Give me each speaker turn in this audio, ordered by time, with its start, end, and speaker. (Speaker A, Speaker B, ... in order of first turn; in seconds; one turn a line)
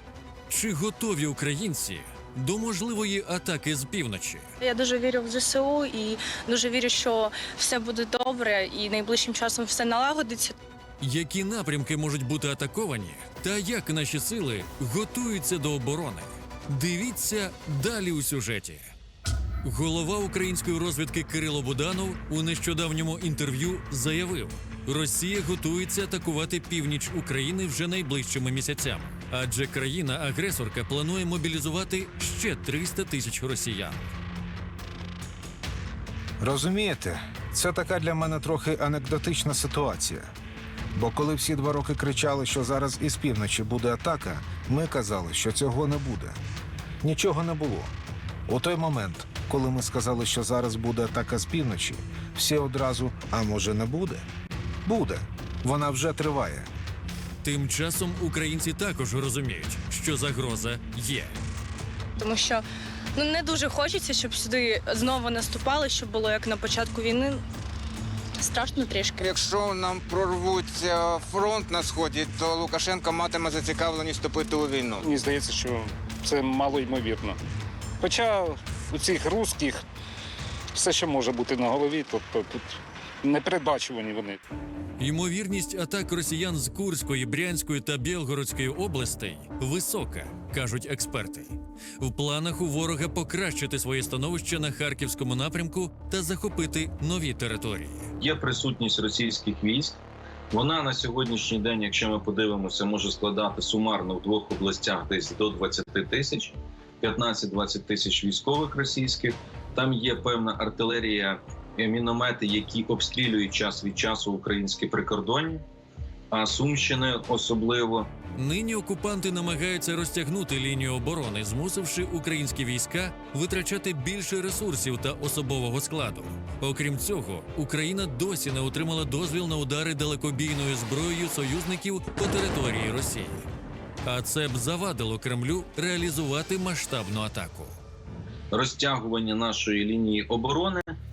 Speaker A: 0.5-4.5
Speaker B: 4.6-10.6
Speaker A: 11.0-18.9
Speaker A: 19.6-34.1
Speaker C: 36.4-40.3
Speaker C: 40.9-46.4
Speaker C: 47.0-47.9
Speaker C: 48.5-54.2
Speaker C: 54.8-56.7
Speaker A: 57.4-61.4
Speaker B: 62.2-62.6
Speaker B: 63.1-67.4
Speaker B: 68.4-69.2
Speaker D: 69.2-75.0
Speaker E: 75.0-77.4
Speaker E: 78.0-79.8
Speaker E: 80.7-84.4
Speaker A: 85.0-98.1
Speaker F: 98.2-100.0
Speaker F: 100.5-115.6
Speaker F: 116.3-118.1
Speaker A: 118.3-133.5
Speaker A: 134.0-137.8
Speaker F: 138.5-140.9